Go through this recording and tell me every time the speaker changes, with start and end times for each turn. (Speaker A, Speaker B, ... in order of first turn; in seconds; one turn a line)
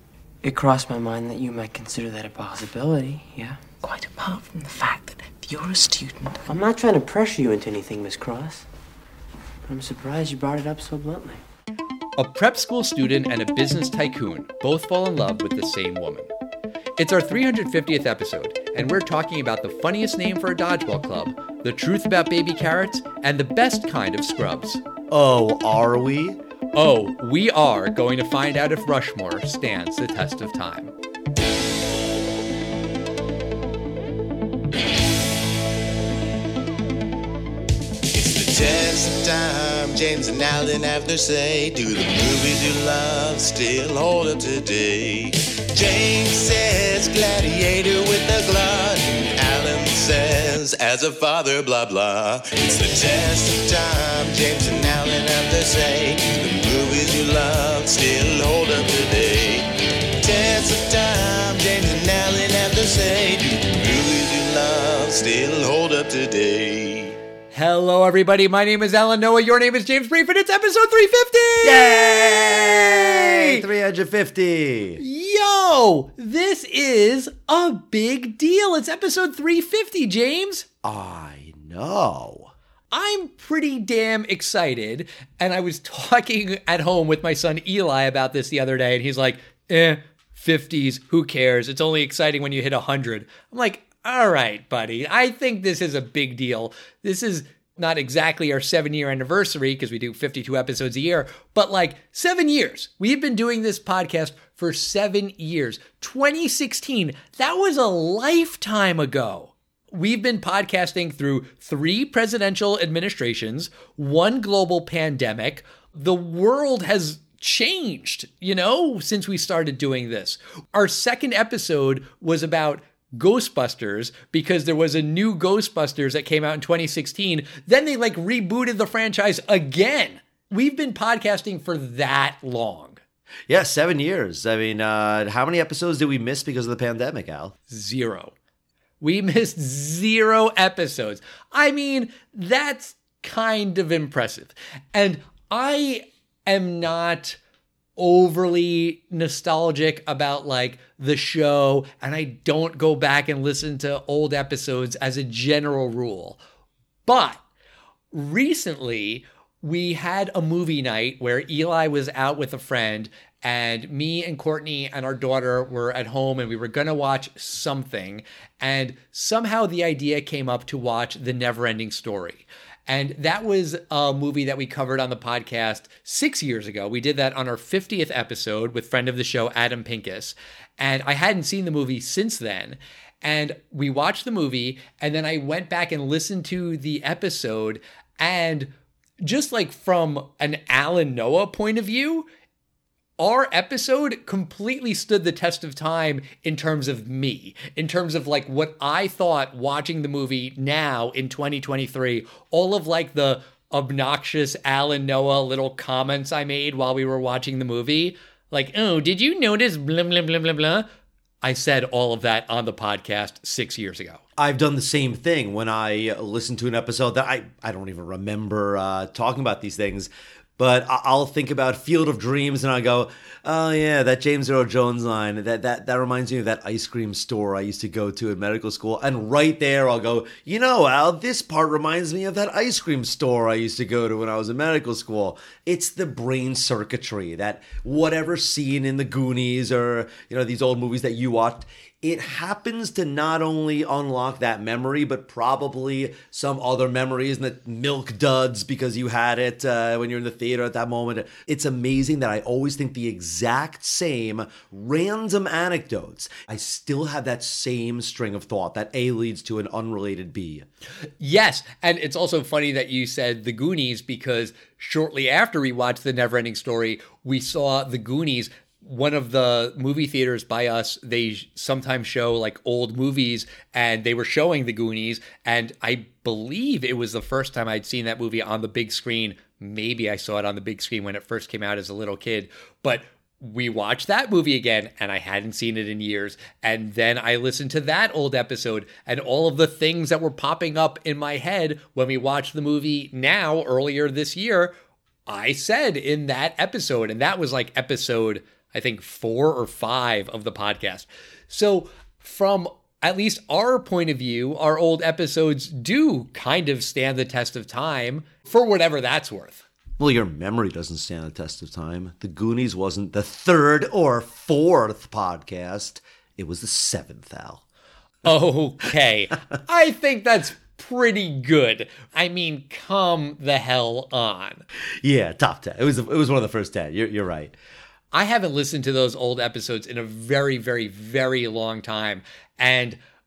Speaker A: 0.4-3.7
Speaker B: 3.7-6.5
Speaker A: 6.5-8.7
Speaker A: 9.7-11.4
Speaker C: 12.2-16.3
Speaker C: 17.0-24.8
Speaker D: 25.1-26.4
Speaker C: 26.7-30.9
Speaker E: 38.1-67.2
Speaker C: 67.5-73.6
Speaker D: 71.6-75.0
Speaker C: 75.0-80.7
Speaker D: 80.8-82.5
Speaker C: 82.9-133.0
Speaker D: 133.5-137.5
Speaker C: 137.7-138.3
Speaker C: 139.0-147.4
Speaker C: 148.0-156.4
Speaker C: 157.1-157.4
Speaker C: 158.1-188.7
Speaker C: 189.2-192.3
Speaker C: 193.2-210.9
Speaker C: 211.4-214.2
Speaker D: 214.4-260.6
Speaker C: 261.2-294.7
Speaker C: 295.3-309.6
Speaker D: 310.0-317.6
Speaker C: 318.2-324.6
Speaker D: 325.0-327.5
Speaker C: 328.1-333.0